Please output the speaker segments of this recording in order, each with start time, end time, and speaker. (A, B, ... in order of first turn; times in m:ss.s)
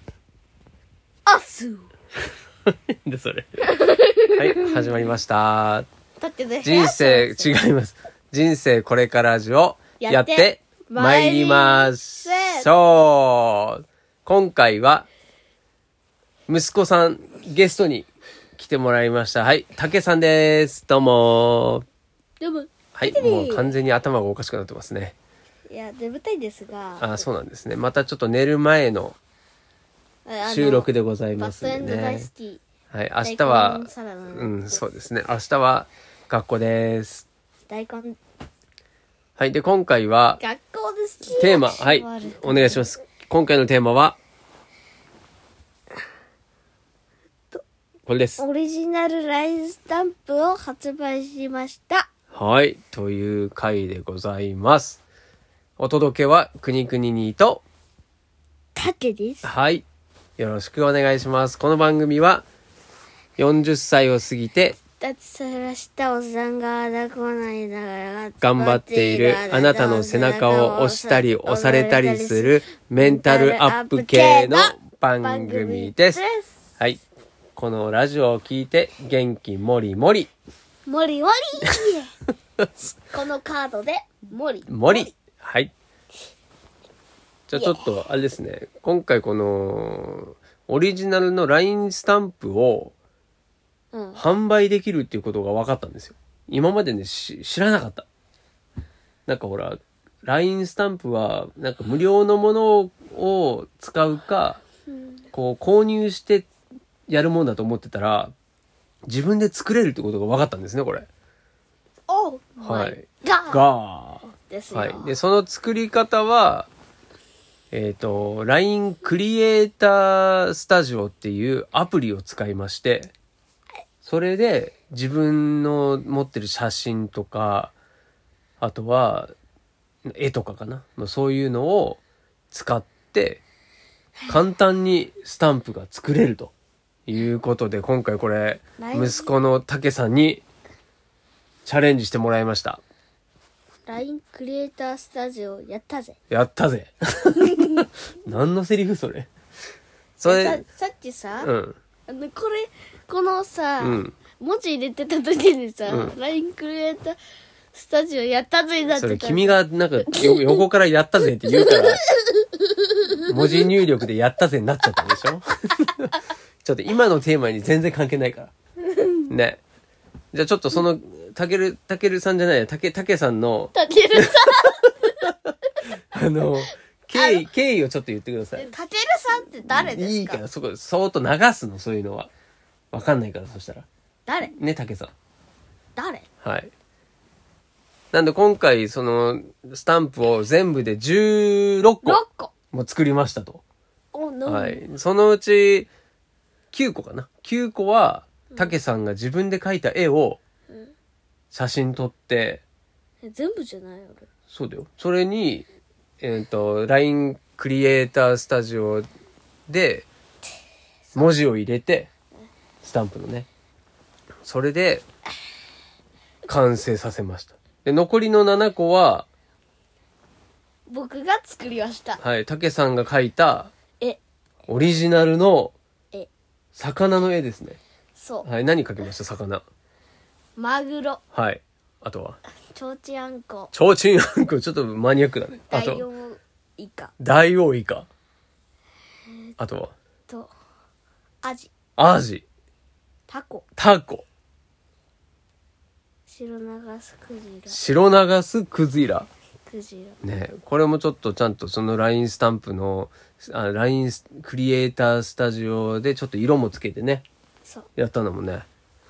0:01.2-0:01.9 A
0:02.7-0:03.6 B
0:03.6-0:05.1 A
0:04.3-0:05.9 B
0:06.2-0:07.5 A
0:06.6-0:15.1 B
0:10.0-0:12.7 A
0:16.5-0:21.8 B
0:22.4-0:23.7 A
0:22.9-0:25.1 B
0:25.7-0:27.2 A
0:27.0-0:29.2 B
0:30.2-0:32.6 A
0:30.4-0:32.3 B
0:32.9-0:37.3 B
0:33.2-0:34.8 A
0:37.7-0:38.2 A
0:39.4-0:40.4 B
0:40.4-0:42.8 A
0:41.3-0:44.2 B
0:48.1-0:48.4 B
0:48.4-0:52.1 A
0:52.3-0:55.0 B
0:55.8-0:57.6 B
0:58.7-0:59.5 A
0:59.4-0:59.8 B
1:00.4-1:02.4 B
1:03.4-1:04.8 B
1:05.0-1:16.5 A
1:08.4-1:16.2 B
1:17.5-1:20.3 B
1:20.8-1:22.1 A
1:23.1-1:25.1 A
1:24.7-1:25.7 B
1:27.5-1:32.9 B
1:27.5-1:27.8 A
1:33.9-1:34.2 A
1:34.1-1:38.0 B
1:39.3-1:44.6 B
1:44.9-1:45.3 A
1:45.3-1:46.5 B
1:47.1-1:48.3 B
1:49.1-1:51.1 B
1:52.1-1:53.6 A
1:52.6-1:56.7 B
1:54.5-1:55.1 A
1:57.7-2:03.1 B
2:04.0-2:07.7 B
2:08.6-2:09.3 B
2:10.0-2:12.0 B
2:12.5-2:13.4 B
2:14.3-2:16.5 B
2:17.1-2:20.4 B
2:18.8-2:19.3 A
2:21.6-2:22.8 B
2:23.8-2:26.2 A
2:26.3-2:29.3 B
2:27.6-2:27.8 A
2:30.2-2:30.6 B
2:30.2-2:31.5 A
2:31.4-2:31.8 B
2:32.1-2:37.2 A
2:33.8-2:34.1 B
2:35.9-2:36.1 B
2:37.7-2:40.6 A
2:38.9-2:42.0 B
2:41.5-2:43.7 A
2:43.2-2:48.5 B
2:48.9-2:49.2 A
2:49.3-2:49.6 B
2:50.3-2:54.3 B
2:53.7-2:55.1 A
2:55.2-2:55.5 B
2:56.1-2:58.7 B
2:57.1-2:57.5 A
2:58.6-3:00.4 A
2:59.7-3:02.3 B
3:02.9-3:03.8 B
3:04.3-3:04.5 A
3:04.6-3:05.1 B
3:06.0-3:06.2 A
3:06.4-3:06.7 B
3:08.1-3:13.6 B
3:12.0-3:12.5 A
3:14.1-3:14.8 A
3:14.4-3:15.9 B
3:16.7-3:20.4 B
3:18.5-3:18.8 A
3:21.5-3:22.6 B
3:23.2-3:24.3 A
3:24.5-3:25.7 B
3:26.2-3:29.1 B
3:29.7-3:30.1 B
3:31.1-3:32.1 B
3:32.8-3:33.5 B
3:34.4-3:35.0 B
3:36.5-3:39.3 B
3:40.9-3:42.2 A
3:42.2-3:43.7 B
3:44.7-3:45.7 B
3:46.8-3:47.8 B
3:48.2-3:48.5 A
3:48.4-3:49.6 B
3:50.6-3:51.2 A
3:51.3-3:52.4 B
3:52.7-3:53.7 A
3:53.7-3:56.0 B
3:55.7-3:57.1 A
3:57.2-3:58.1 B
3:59.6-3:59.9 B
4:01.4-4:01.7 A
4:02.0-4:02.4 B
4:03.3-4:03.6 A
4:03.8-4:04.2 B
4:06.3-4:07.8 A
4:07.7-4:09.3 B
4:09.7-4:10.2 A
4:10.2-4:17.2 B
4:18.0-4:18.6 B